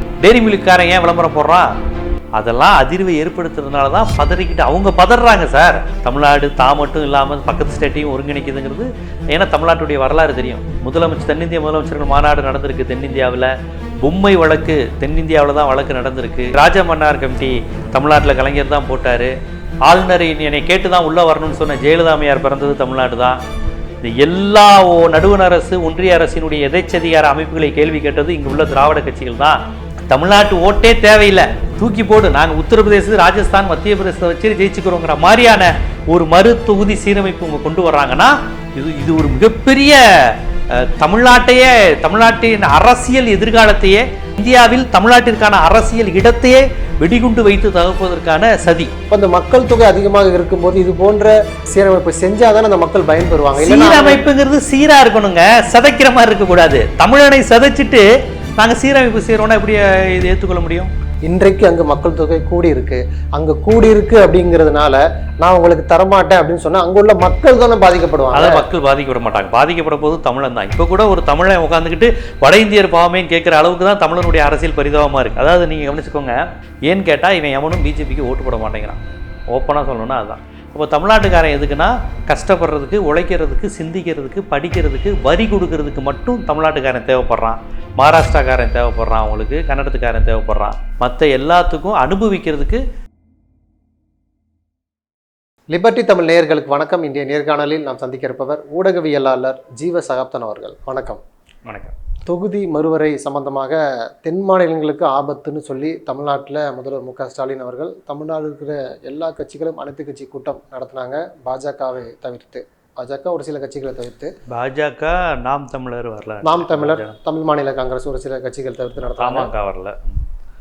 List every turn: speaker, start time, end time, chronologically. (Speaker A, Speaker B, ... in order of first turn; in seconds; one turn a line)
Speaker A: 0.2-1.7
Speaker A: 2.4-13.5
Speaker A: 14.0-19.3
Speaker A: 19.9-23.4
Speaker A: 24.0-48.9
Speaker B: 49.1-54.3
Speaker A: 53.6-58.0
Speaker A: 58.6-60.9
Speaker B: 61.3-68.7
Speaker A: 68.3-79.0
Speaker A: 79.5-92.8
Speaker B: 95.7-101.2
Speaker A: 101.7-102.0
Speaker B: 102.3-114.3
Speaker A: 114.5-117.2
Speaker B: 116.4-119.5
Speaker A: 119.2-120.2